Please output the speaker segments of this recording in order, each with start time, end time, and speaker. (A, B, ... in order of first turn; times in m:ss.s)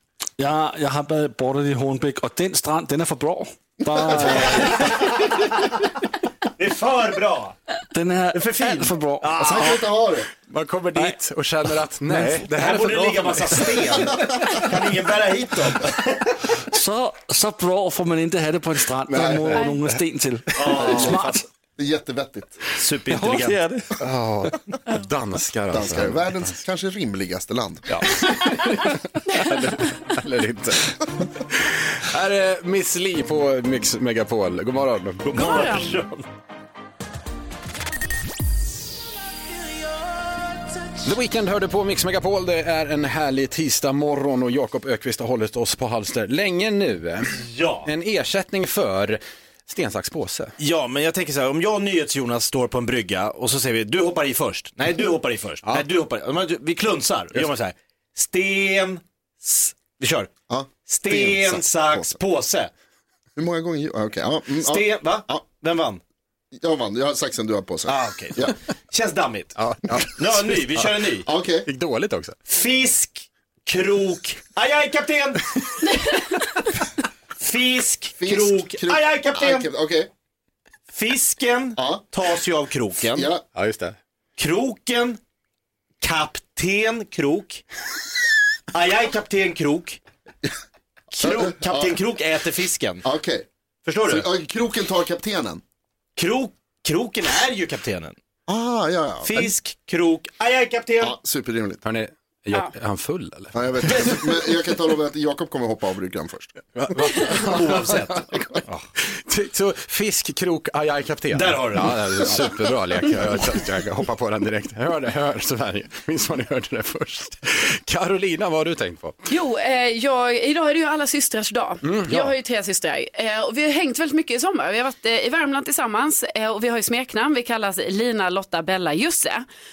0:00.4-0:04.9 A
0:04.2-0:05.4 B
0:06.6-0:07.6 B
0:07.9-0:09.6 A
0:08.3-0:09.8 B
0:09.4-0:10.3 C
0:10.5-0:14.1 D
0:12.1-0:12.4 A
0:12.5-0:16.3 B
0:16.7-0:21.4 A
0:19.1-0:19.6 C
0:20.6-0:21.4 B
0:20.8-0:22.6 C
0:22.8-0:23.6 B
0:23.1-0:23.9 A
0:24.0-0:26.4 D
0:25.7-0:28.0 C
0:28.2-0:35.8 D
0:35.2-0:36.2 B
0:35.4-0:35.9 E
0:41.0-0:50.5 D
0:47.4-0:47.9 B
0:50.6-1:00.3 B
1:00.5-1:02.2 C
1:00.8-1:02.7 B
1:03.4-1:05.4 C
1:04.6-1:06.0 B
1:06.6-1:08.5 C
1:07.9-1:09.6 B
1:09.6-1:10.9 D
1:10.2-1:11.3 B
1:11.2-1:11.7 C
1:11.6-1:12.4 D
1:12.5-1:16.2 B
1:17.4-1:19.7 B
1:18.2-1:20.1 C
1:20.9-1:23.3 B
1:21.8-1:22.0 C
1:23.1-1:23.4 C
1:23.6-1:24.0 D
1:24.4-1:25.2 B
1:26.0-1:27.6 B
1:28.7-1:30.0 B
1:31.1-1:33.0 B
1:31.2-1:32.0 C
1:33.0-1:33.4 C
1:33.8-1:34.2 B
1:34.0-1:35.6 C
1:36.2-1:38.2 B
1:38.5-1:39.5 C
1:39.2-1:41.1 B
1:41.0-1:41.8 C
1:41.8-1:44.1 D
1:43.5-1:46.6 C
1:46.8-1:59.2 D
1:47.2-1:48.8 B
1:51.3-1:52.5 B
1:59.3-2:09.4 E
2:01.8-2:02.3 D